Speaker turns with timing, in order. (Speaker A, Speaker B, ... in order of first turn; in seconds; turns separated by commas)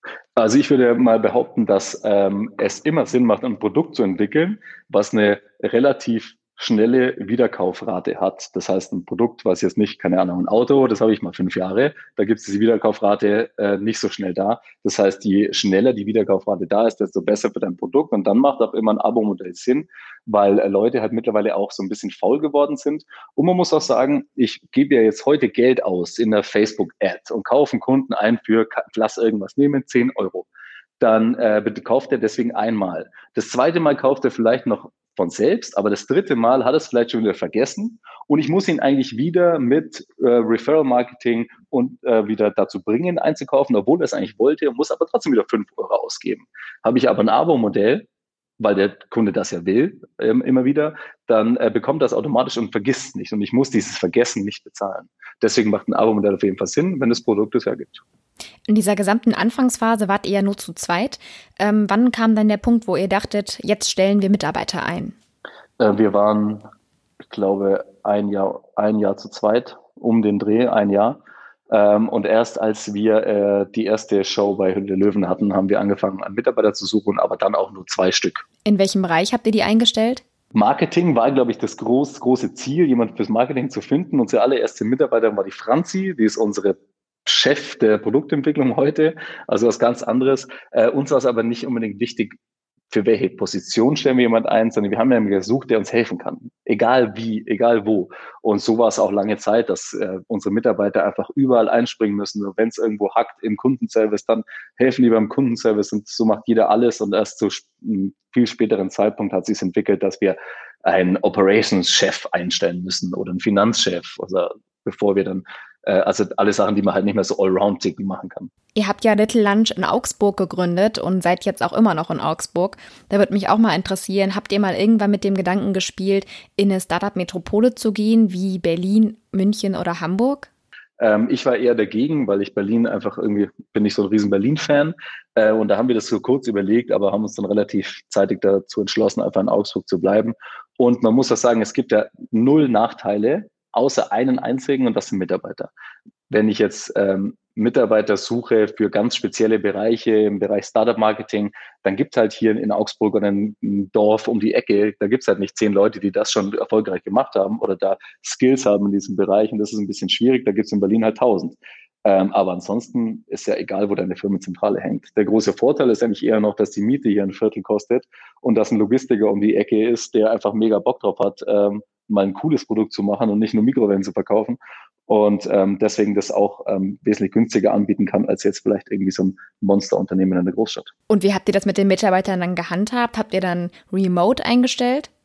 Speaker A: 0.4-30.5, Speaker A: 31.0-48.1, Speaker A: 48.6-58.0, Speaker B: 58.7-65.2, Speaker A: 65.8-66.7, Speaker A: 67.3-78.5, Speaker B: 78.7-80.2, Speaker A: 80.5-92.3, Speaker A: 92.9-118.5, Speaker B: 118.8-130.5, Speaker A: 131.0-145.7, Speaker A: 146.3-180.9, Speaker B: 181.1-185.1